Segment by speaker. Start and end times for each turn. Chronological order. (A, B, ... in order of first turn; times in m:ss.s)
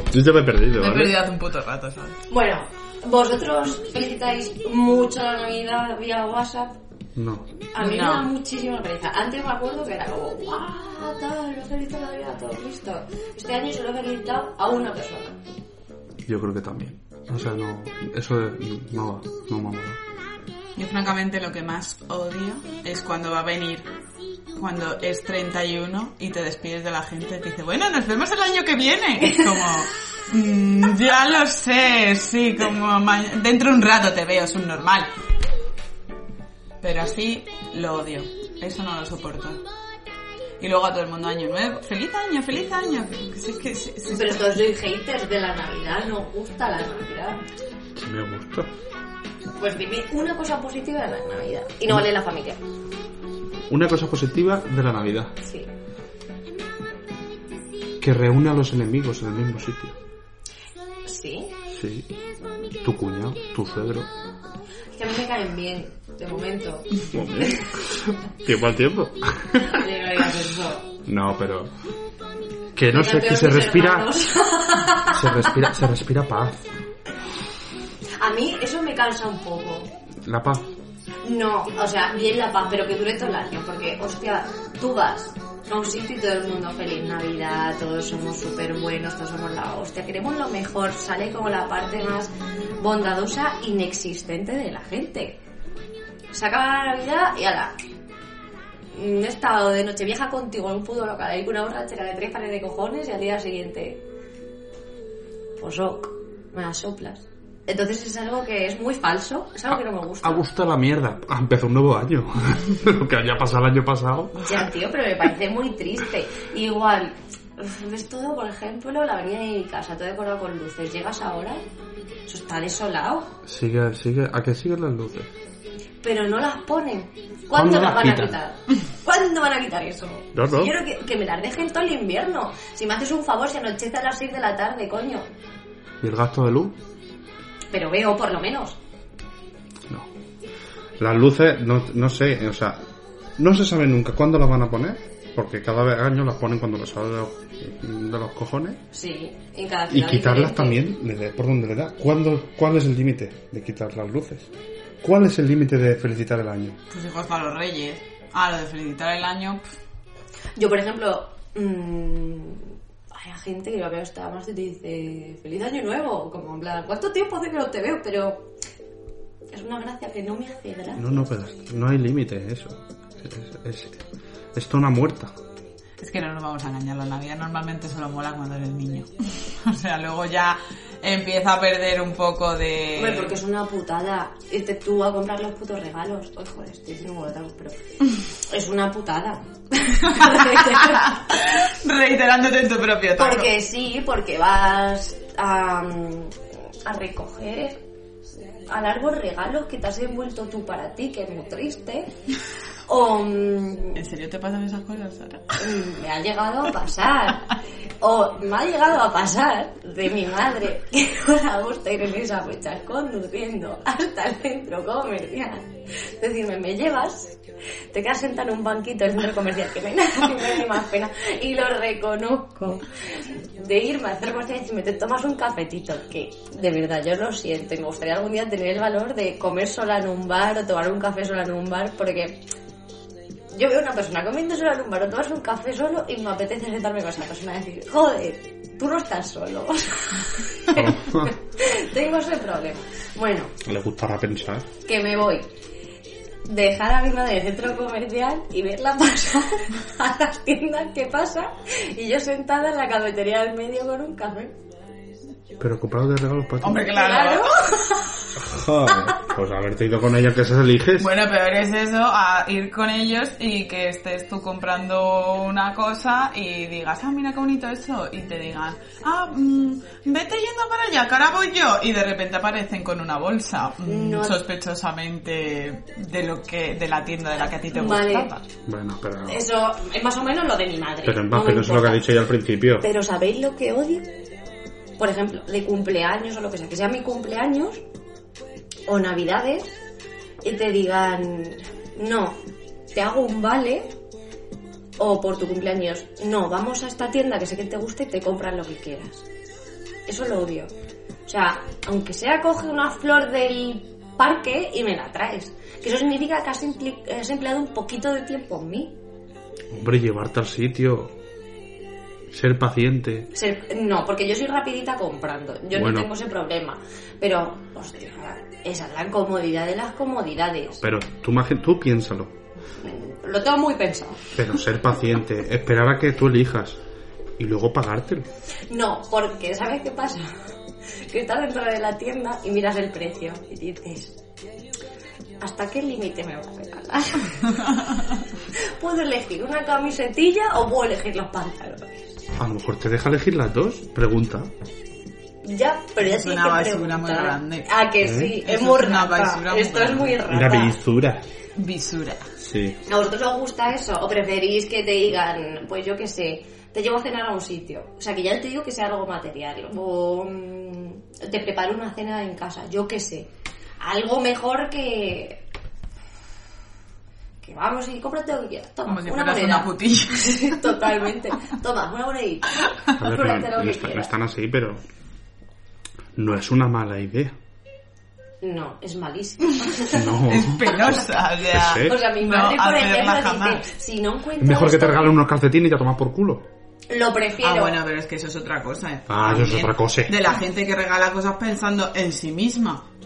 0:00.1-0:01.1 A
0:00.8-0:02.2 B
0:02.3-0:06.8 C
0:07.2-0:07.5 A
0:07.7-0:15.4 C
0:07.8-0:08.3 B
0:16.2-0:20.0 A
0:20.8-0:23.9 B
0:24.5-0:35.1 B
0:36.8-0:39.6 B
0:40.6-0:44.5 B
0:44.1-0:47.4 C
0:48.0-0:48.7 A
0:49.6-0:52.6 C
0:53.7-0:55.3 A
0:55.4-0:55.7 C
0:58.0-1:00.0 A
1:01.0-1:01.5 C
1:01.7-1:02.1 A
1:02.8-1:04.1 A
1:04.9-1:07.7 C
1:07.1-1:09.8 A
1:09.6-1:10.9 C
1:11.0-1:11.7 A
1:12.7-1:14.1 A
1:12.9-1:15.3 C
1:15.0-1:16.6 A
1:18.2-1:19.9 C
1:20.2-1:20.7 A
1:21.2-1:35.4 C
1:36.3-1:37.8 C
1:38.9-1:44.0 C
1:45.6-1:50.4 C
1:50.2-1:54.5 A
1:54.4-2:01.6 C
2:02.3-2:03.3 C
2:03.4-2:05.3 A
2:06.0-2:15.3 C
2:07.5-2:08.4 A
2:10.3-2:10.7 A
2:16.0-2:16.8 A
2:17.7-2:18.8 C
2:21.0-2:22.8 A
2:23.4-2:28.8 A
2:28.9-2:30.8 C
2:29.9-2:34.5 A
2:35.0-2:36.8 A
2:36.9-2:39.6 B
2:40.6-2:48.5 C
2:49.5-2:51.2 C
2:51.0-2:54.0 A
2:54.5-2:55.3 A
2:56.0-3:03.4 B
3:03.0-3:11.3 C
3:10.1-3:13.5 B
3:13.1-3:17.8 C
3:18.6-3:22.1 C
3:22.9-3:24.0 C
3:24.0-3:25.6 B
3:25.6-3:37.4 C
3:37.9-3:52.4 C
3:53.5-4:03.5 C
4:00.7-4:01.3 A
4:03.6-4:04.7 A
4:04.8-4:05.5 C
4:06.4-4:14.5 C
4:15.6-4:16.9 A
4:16.6-4:17.6 B
4:16.9-4:18.2 C
4:18.4-4:21.1 A
4:21.0-4:38.4 B
4:33.8-4:34.4 C
4:37.7-4:38.3 C
4:38.6-4:39.4 A
4:39.2-4:42.1 C
4:41.0-4:42.9 A
4:42.8-4:44.1 C
4:45.0-4:47.8 C
4:48.9-4:49.7 C
4:50.4-4:52.4 C
4:52.9-4:53.9 C
4:55.0-4:59.2 C
5:00.1-5:00.7 C
5:01.2-5:08.9 C
5:09.7-5:11.1 A
5:12.3-5:13.3 A
5:13.3-5:20.8 C
5:15.7-5:16.1 A
5:20.8-5:22.3 A
5:22.8-5:24.3 C
5:24.3-5:26.8 A
5:27.4-5:28.3 A
5:28.7-5:30.3 C
5:31.1-5:34.2 C
5:35.4-5:37.6 C
5:38.5-5:42.2 C
5:42.4-5:44.5 A
5:45.4-5:50.8 C
5:46.0-5:47.7 B
5:48.0-5:48.4 A
5:48.4-5:50.2 B
5:50.2-5:51.2 A
5:51.5-5:52.3 B
5:52.4-5:52.8 A
5:52.8-6:05.4 C
6:07.4-6:14.1 C
6:08.8-6:10.7 B
6:13.0-6:14.8 A
6:16.2-6:17.3 A
6:18.4-6:20.3 C
6:19.9-6:22.0 A
6:20.2-6:23.6 B
6:21.7-6:25.2 C
6:24.4-6:26.5 A
6:26.9-6:27.8 C
6:27.4-6:32.8 B
6:29.1-6:30.2 A